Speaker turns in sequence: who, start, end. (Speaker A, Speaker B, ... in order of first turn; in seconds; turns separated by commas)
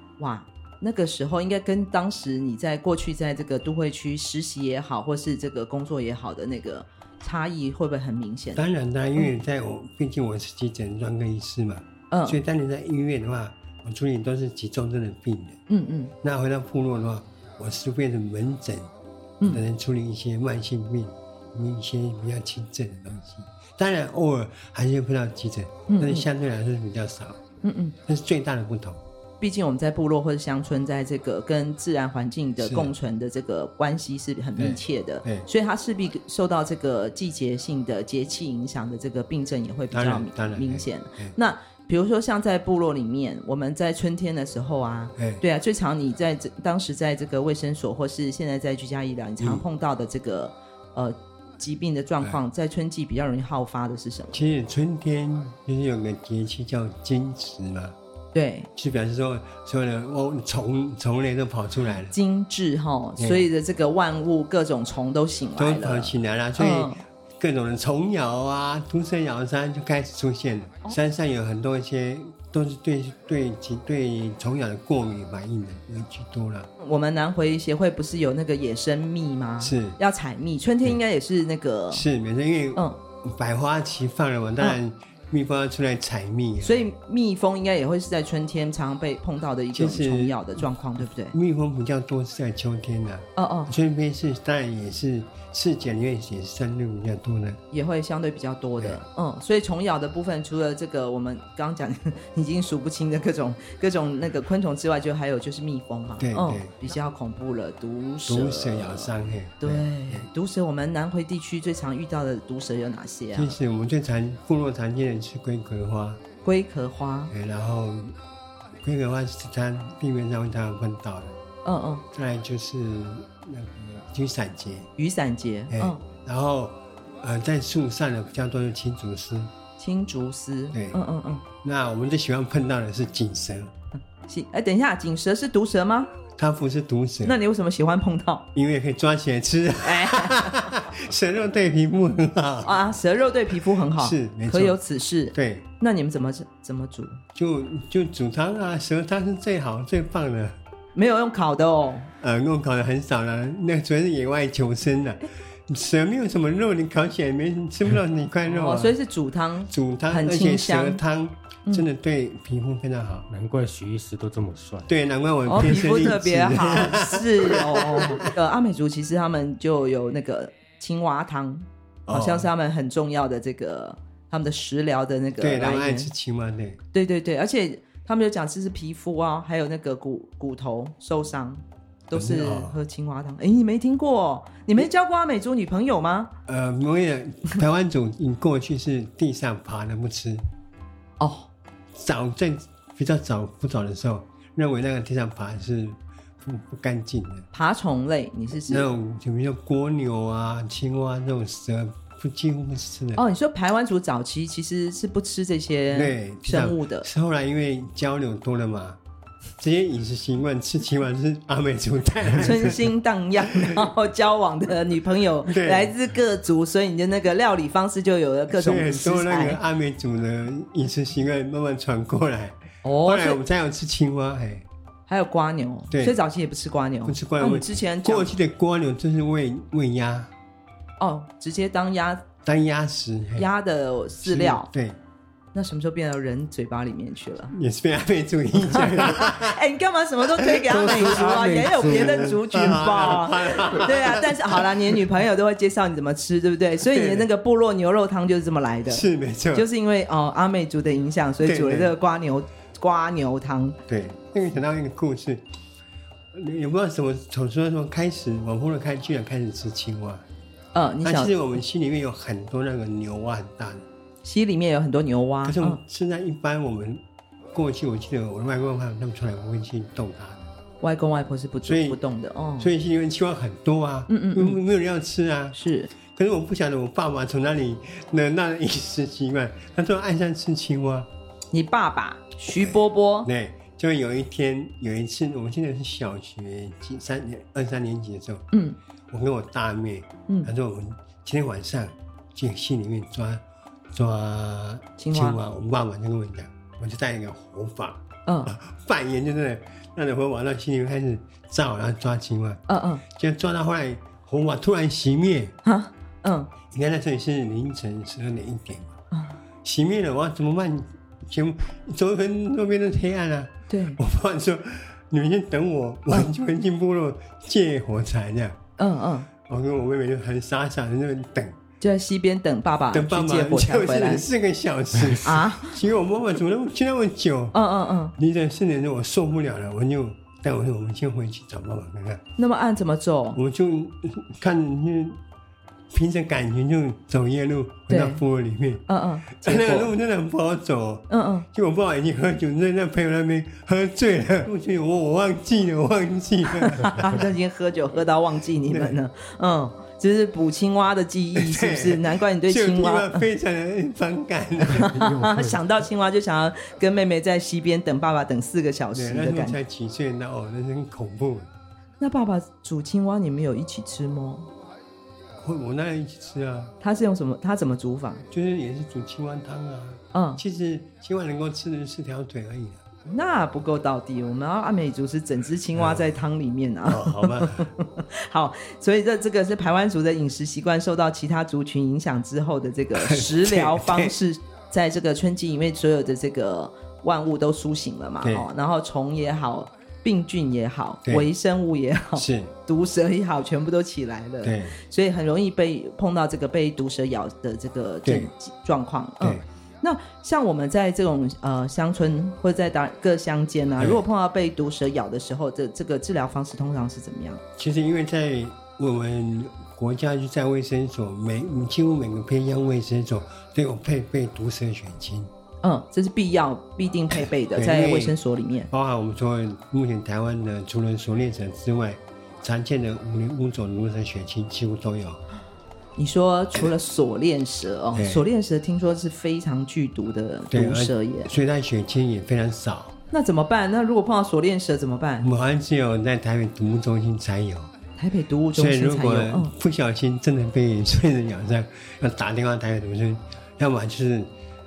Speaker A: 0.2-8.6, Speaker B: 8.6-15.6, Speaker A: 12.1-12.4, Speaker A: 15.7-16.1, Speaker B: 16.2-18.9, Speaker B: 19.4-27.4, Speaker A: 25.9-26.3, Speaker A: 27.6-28.0, Speaker B: 28.0-29.0, Speaker A: 29.4-54.5, Speaker B: 32.6-32.9, Speaker B: 34.6-35.5, Speaker B: 39.9-41.4, Speaker B: 45.2-45.4, Speaker B: 54.3-58.0, Speaker A: 58.3-58.7, Speaker B: 58.8-62.1, Speaker A: 62.1-67.0, Speaker B: 63.2-63.5, Speaker B: 65.6-76.7, Speaker A: 76.8-82.1, Speaker B: 79.6-80.0, Speaker B: 81.9-86.9, Speaker A: 86.6-91.3, Speaker B: 89.7-90.4, Speaker B: 91.3-97.6, Speaker A: 93.4-93.7, Speaker A: 97.7-113.6, Speaker B: 106.2-106.7, Speaker B: 108.3-110.3, Speaker B: 113.3-116.2, Speaker A: 116.4-117.3, Speaker B: 117.3-118.2, Speaker B: 118.8-121.4, Speaker A: 121.7-122.0, Speaker B: 122.1-124.9, Speaker A: 125.0-126.0, Speaker B: 125.7-129.5, Speaker A: 129.8-131.4, Speaker B: 130.7-131.0, Speaker B: 131.6-133.7, Speaker A: 134.2-136.1, Speaker B: 136.4-137.4, Speaker A: 137.2-138.5, Speaker B: 138.5-142.8, Speaker A: 139.8-140.6, Speaker A: 142.6-147.2, Speaker B: 143.9-144.8, Speaker B: 145.3-145.7, Speaker B: 147.3-150.6, Speaker A: 150.9-152.1, Speaker B: 152.2-159.0, Speaker A: 158.5-161.0, Speaker B: 159.7-163.3, Speaker C: 163.3-164.9, Speaker B: 164.9-168.3, Speaker A: 165.5-176.1, Speaker B: 172.1-172.5, Speaker B: 175.4-176.8, Speaker A: 176.9-186.3, Speaker B: 182.1-182.8, Speaker B: 186.5-190.4, Speaker A: 191.2-191.5, Speaker B: 191.9-197.5, Speaker A: 197.5-198.9, Speaker B: 198.7-203.2, Speaker A: 203.2-207.1, Speaker B: 205.9-209.0, Speaker B: 209.6-212.9, Speaker A: 212.3-219.6, Speaker B: 213.5-213.9, Speaker B: 215.4-215.9, Speaker B: 218.5-224.7, Speaker A: 222.8-223.4, Speaker A: 225.1-228.3, Speaker B: 225.9-226.2, Speaker B: 227.1-230.3, Speaker A: 231.0-232.2, Speaker B: 232.4-233.5, Speaker A: 233.4-234.7, Speaker B: 234.2-235.0, Speaker A: 235.5-237.6, Speaker B: 237.5-239.6, Speaker A: 238.6-253.8, Speaker B: 240.3-245.0, Speaker C: 240.7-242.3, Speaker B: 246.8-247.3, Speaker B: 248.9-249.7, Speaker B: 251.4-251.9, Speaker B: 253.9-255.5, Speaker B: 256.3-260.2, Speaker A: 260.7-261.3, Speaker B: 261.0-263.9, Speaker A: 264.2-265.8, Speaker B: 265.4-267.0, Speaker B: 267.5-270.5, Speaker A: 270.8-272.7, Speaker B: 271.6-272.0, Speaker B: 272.6-281.1, Speaker A: 274.1-274.6, Speaker A: 275.6-275.9, Speaker A: 281.5-283.3, Speaker B: 282.5-288.4, Speaker A: 288.5-288.8, Speaker B: 289.1-305.6, Speaker A: 295.0-295.4, Speaker A: 302.7-303.0, Speaker A: 305.6-306.5, Speaker B: 306.7-309.0, Speaker A: 309.1-309.4, Speaker B: 309.6-318.6, Speaker A: 313.7-314.0, Speaker A: 318.8-319.3, Speaker B: 319.4-321.6, Speaker A: 321.8-324.3, Speaker B: 322.9-327.6, Speaker A: 325.2-325.8, Speaker A: 327.5-328.1, Speaker B: 328.1-332.2, Speaker A: 332.4-333.4, Speaker B: 333.3-335.2, Speaker B: 335.9-347.3, Speaker A: 337.9-338.2, Speaker A: 338.9-339.9, Speaker A: 341.1-341.5, Speaker A: 346.6-353.3, Speaker B: 348.7-349.0, Speaker B: 351.4-355.6, Speaker A: 354.6-359.6, Speaker B: 358.9-361.5, Speaker A: 362.0-364.5, Speaker B: 365.3-366.7, Speaker A: 366.8-368.2, Speaker B: 368.3-372.8, Speaker A: 370.1-370.4, Speaker A: 373.1-407.4, Speaker B: 375.8-376.1, Speaker B: 376.9-377.7, Speaker B: 382.9-384.1, Speaker B: 388.2-388.5, Speaker B: 392.1-392.5, Speaker B: 394.4-394.8, Speaker B: 398.1-398.3, Speaker B: 407.6-415.3, Speaker A: 415.6-418.7, Speaker B: 417.6-418.2, Speaker B: 418.7-425.2, Speaker A: 426.0-431.3, Speaker B: 427.9-428.3, Speaker B: 430.5-432.9, Speaker A: 433.1-435.3, Speaker B: 435.2-437.7, Speaker A: 438.0-439.5, Speaker B: 438.6-444.3